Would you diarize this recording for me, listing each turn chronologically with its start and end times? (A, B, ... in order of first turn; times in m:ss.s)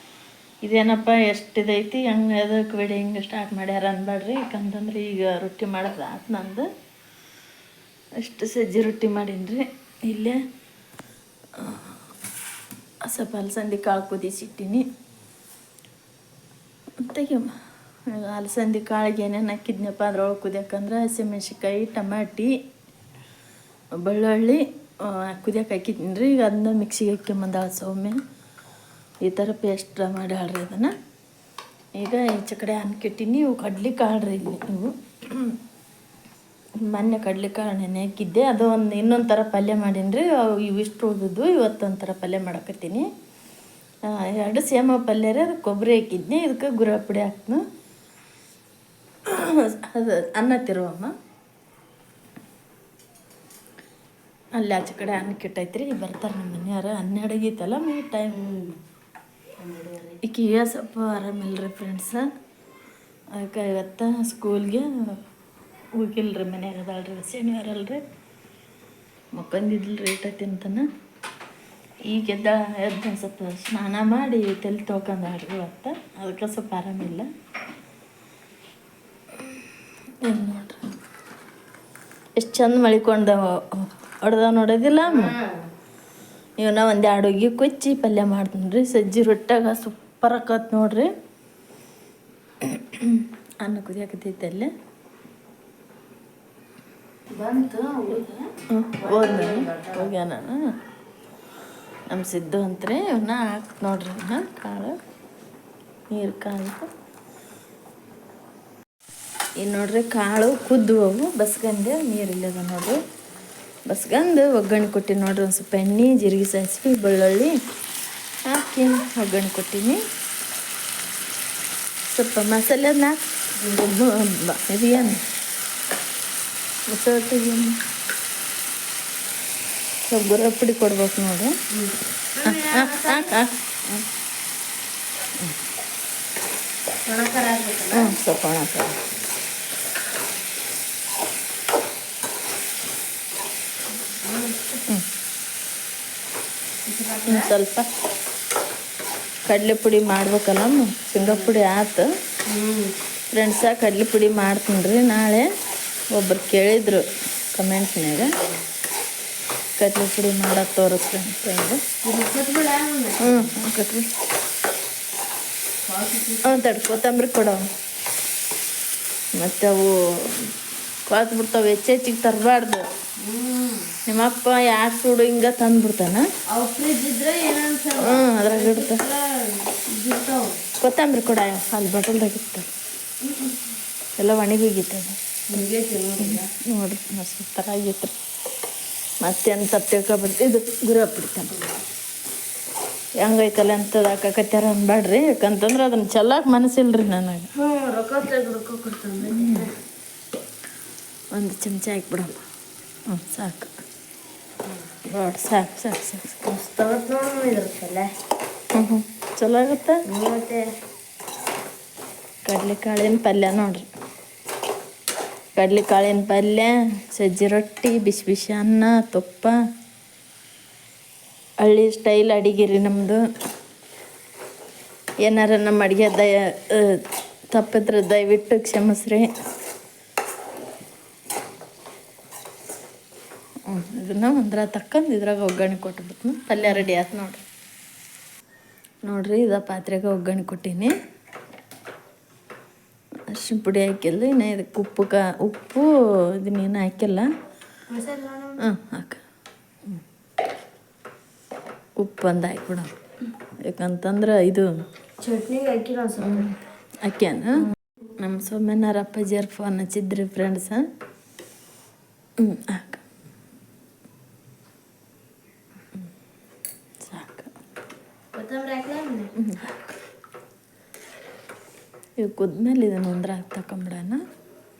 0:00.6-0:06.7 A
0:08.2-0:10.4 A
0:11.6-0:12.0 A
0:13.0-0:14.9 A
0:17.0-0:17.6 A
0:18.1-0:22.5 A
0:24.0-0:28.2 A
0:29.2-0:30.9 A
0:32.0-0:35.6 A
0:36.8-0:43.1 A
0:44.1-0:47.6 A
0:49.2-0:51.1 A
0:54.6-0:58.4 A
0:58.3-0:58.8 B
0:59.6-1:00.2 B
1:00.2-1:02.3 A
1:03.3-1:05.2 A
1:06.0-1:08.0 A
1:09.3-1:10.8 A
1:12.1-1:17.3 A
1:20.2-1:20.9 A
1:22.4-1:25.4 A
1:25.1-1:25.6 B
1:26.6-1:31.1 A
1:32.6-1:34.7 A
1:37.3-1:38.5 B
1:38.7-1:40.6 A
1:39.0-1:40.1 B
1:42.1-1:45.0 A
1:46.1-1:46.9 A
1:49.6-1:53.0 A
1:53.9-1:57.6 A
1:58.4-2:00.0 A
2:02.1-2:05.2 A
2:06.9-2:07.7 A
2:10.0-2:11.5 A
2:11.7-2:13.3 B
2:12.4-2:14.0 A
2:17.1-2:18.1 B
2:17.9-2:19.0 A
2:24.1-2:24.6 B
2:26.9-2:27.5 B
2:27.3-2:27.9 A
2:29.5-2:32.1 A
2:31.2-2:31.6 B
2:32.5-2:32.9 B
2:33.3-2:35.5 A
2:36.1-2:38.4 A
2:38.2-2:38.6 B
2:39.8-2:41.8 A
2:42.0-2:43.6 B
2:43.2-2:44.1 A
2:45.8-2:46.5 B
2:46.4-2:47.6 A
2:49.4-2:50.5 A
2:51.1-2:52.8 A
2:53.2-2:53.9 B
2:54.1-2:56.2 A
2:56.5-3:00.6 B
2:58.0-2:59.0 A
3:00.8-3:02.7 A
3:03.2-3:03.6 B
3:04.2-3:05.2 A
3:05.5-3:06.5 B
3:06.2-3:08.1 A
3:09.2-3:11.6 A
3:13.2-3:17.5 A
3:17.6-3:19.7 B
3:19.2-3:19.7 A
3:21.3-3:22.4 A
3:23.1-3:23.7 A
3:25.1-3:26.4 A
3:26.4-3:28.1 B
3:28.7-3:30.0 A
3:30.1-3:30.6 B
3:32.4-3:33.9 A
3:35.6-3:39.6 A
3:41.6-3:43.2 A
3:45.2-3:49.3 A
3:53.7-3:57.4 A
3:59.0-4:00.9 A
4:03.3-4:05.9 A
4:06.4-4:07.3 A
4:07.9-4:08.6 B
4:08.6-4:09.2 A
4:12.0-4:12.9 A
4:13.6-4:14.7 A
4:15.2-4:16.5 B
4:16.2-4:17.6 A
4:18.2-4:20.9 A
4:22.4-4:23.0 A
4:27.0-4:27.5 A
4:28.3-4:29.3 B
4:29.4-4:29.8 A
4:32.2-4:34.2 A